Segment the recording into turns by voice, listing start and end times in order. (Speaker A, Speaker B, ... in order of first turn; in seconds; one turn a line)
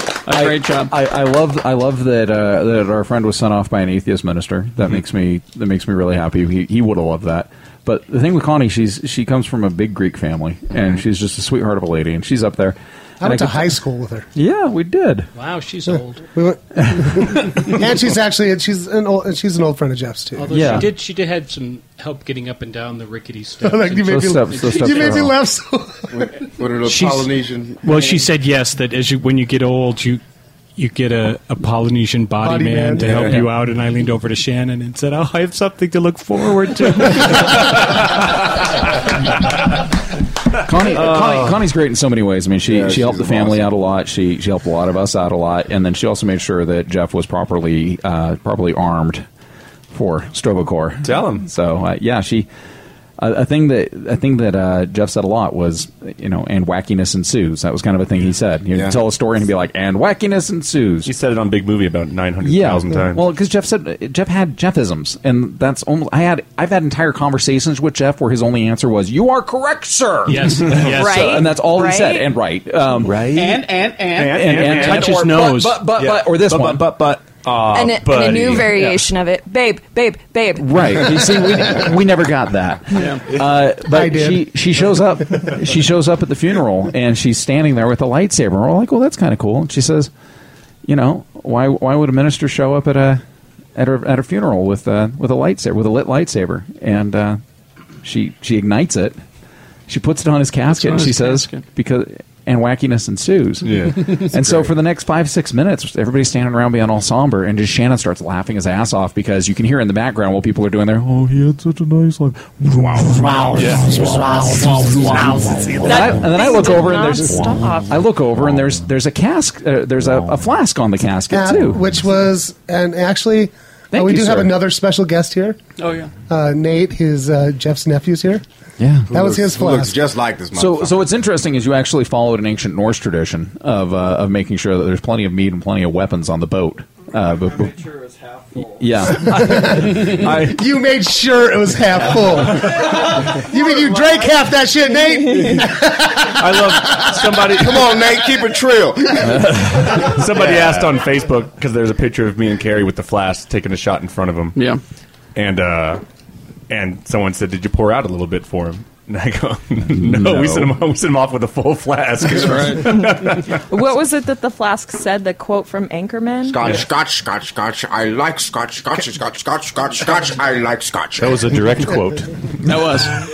Speaker A: 0.2-0.9
Speaker B: 0.3-13.7
Speaker C: 13.2-14.3
Speaker B: 14.3-15.3
Speaker D: 15.3-16.2
Speaker C: 16.3-20.8
Speaker B: 16.8-17.6
Speaker D: 20.4-25.2
Speaker B: 20.5-20.9
Speaker C: 23.6-26.3
Speaker B: 24.0-25.4
Speaker E: 26.1-28.2
Speaker D: 26.8-27.3
Speaker D: 27.8-30.2
Speaker D: 30.8-37.8
Speaker C: 32.4-33.4
Speaker E: 33.0-33.4
Speaker B: 40.6-49.2
Speaker F: 40.9-41.5
Speaker E: 42.6-43.7
Speaker B: 49.9-52.5
Speaker F: 51.0-51.5
Speaker B: 53.2-61.1
Speaker E: 58.7-59.0
Speaker F: 61.0-63.2
Speaker B: 62.4-73.2
Speaker D: 70.2-71.5
Speaker G: 70.8-72.3
Speaker H: 73.0-73.6
Speaker A: 73.3-75.3
Speaker F: 74.1-75.1
Speaker B: 74.2-76.9
Speaker D: 74.7-75.9
Speaker H: 76.0-76.2
Speaker F: 76.0-79.0
Speaker G: 77.7-80.7
Speaker B: 80.6-90.1
Speaker A: 82.9-83.2
Speaker C: 83.9-84.5
Speaker B: 90.8-93.2
Speaker B: 93.8-97.4
Speaker B: 98.0-99.2
Speaker B: 99.9-121.9
Speaker A: 100.7-101.7
Speaker F: 103.6-104.0
Speaker H: 113.6-114.0
Speaker G: 115.8-117.9
Speaker C: 121.3-125.6
Speaker B: 123.9-124.5
Speaker A: 125.8-126.1
Speaker C: 126.3-128.4
Speaker B: 128.8-129.4
Speaker C: 129.1-129.9
Speaker E: 129.2-131.1
Speaker B: 130.5-137.9
Speaker B: 138.6-140.4
Speaker C: 139.2-147.6
Speaker F: 140.1-140.6
Speaker F: 142.5-142.8
Speaker F: 146.3-148.0
Speaker E: 147.5-150.6
Speaker F: 149.6-154.6
Speaker A: 154.5-154.8
Speaker F: 155.3-156.0
Speaker F: 156.7-163.5
Speaker B: 159.9-160.7
Speaker A: 162.3-163.0
Speaker G: 163.7-166.6
Speaker E: 166.5-171.6
Speaker H: 171.2-172.3
Speaker A: 172.6-173.2